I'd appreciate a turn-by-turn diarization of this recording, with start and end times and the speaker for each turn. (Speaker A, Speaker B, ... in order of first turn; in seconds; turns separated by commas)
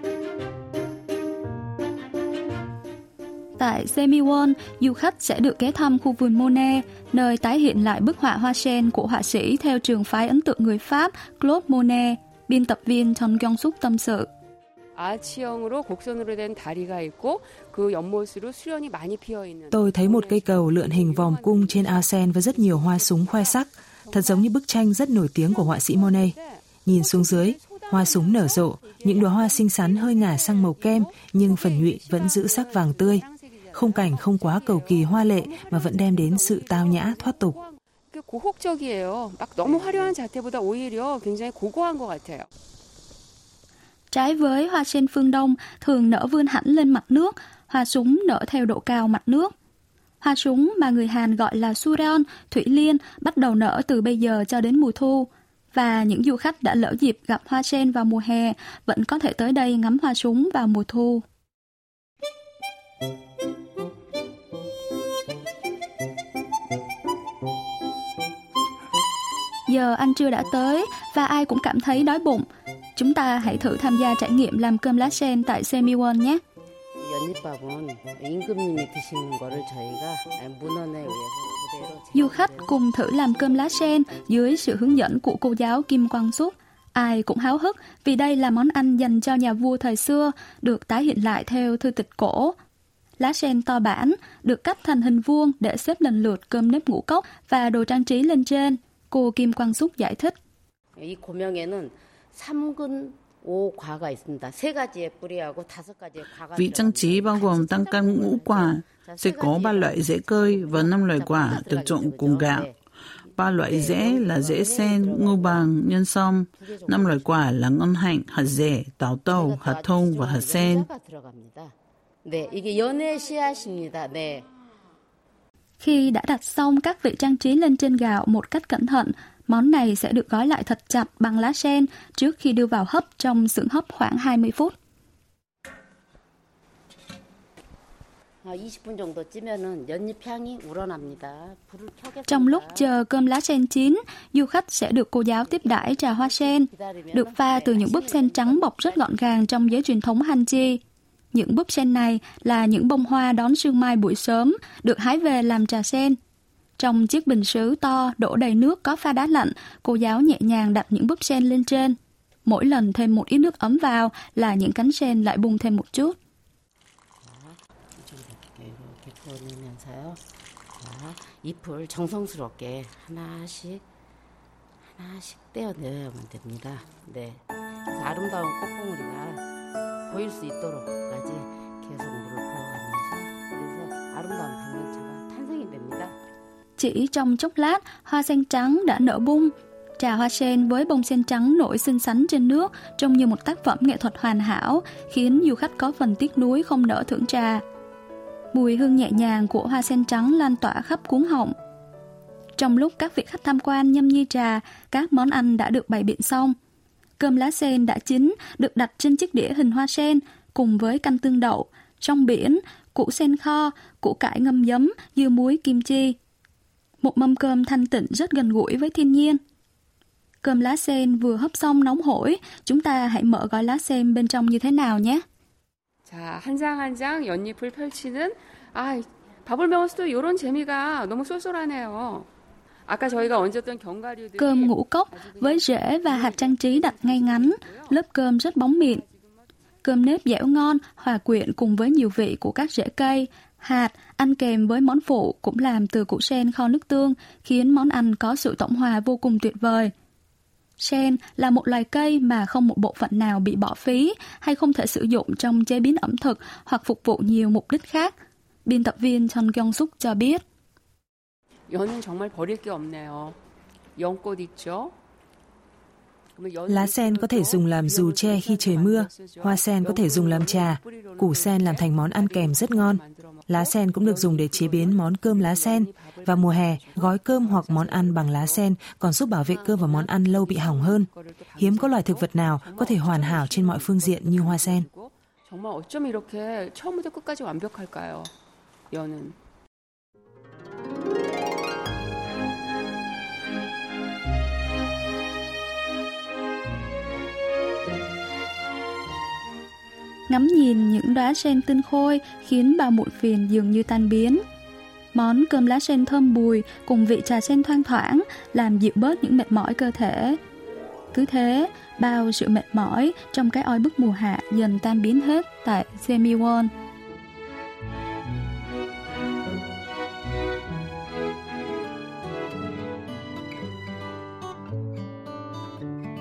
Speaker A: 3.6-14.3, Speaker B: 14.9-24.5, Speaker C: 19.7-37.6, Speaker B: 25.4-42.5, Speaker A: 44.1-49.5, Speaker A: 50.2-61.2, Speaker A: 69.7-72.5, Speaker A: 73.0-76.4, Speaker D: 77.0-82.7, Speaker A: 82.1-92.5, Speaker A: 93.2-100.3, Speaker D: 101.0-112.8, Speaker E: 106.5-112.7, Speaker E: 113.4-120.9, Speaker D: 113.4-115.7, Speaker D: 116.6-117.5, Speaker D: 119.3-121.7, Speaker D: 122.2-124.5, Speaker A: 125.8-134.7, Speaker D: 138.4-142.9, Speaker A: 142.3-150.8, Speaker D: 145.4-149.4, Speaker A: 151.3-156.2, Speaker A: 156.8-166.2, Speaker D: 167.2-170.2, Speaker D: 170.8-173.8, Speaker D: 174.9-179.4, Speaker D: 180.1-186.2, Speaker A: 186.8-197.6, Speaker A: 198.5-201.6, Speaker A: 202.6-206.6, Speaker A: 207.2-216.2, Speaker A: 217.0-219.4, Speaker A: 220.4-225.2, Speaker B: 226.1-232.3, Speaker B: 232.9-238.0, Speaker A: 234.4-239.0, Speaker A: 239.8-249.9, Speaker A: 250.8-258.1, Speaker A: 258.7-260.4, Speaker B: 261.7-263.4, Speaker B: 264.0-264.9, Speaker B: 266.4-288.3, Speaker C: 266.7-284.9, Speaker B: 288.9-289.4, Speaker A: 300.3-304.4, Speaker A: 305.1-310.4, Speaker A: 311.1-316.7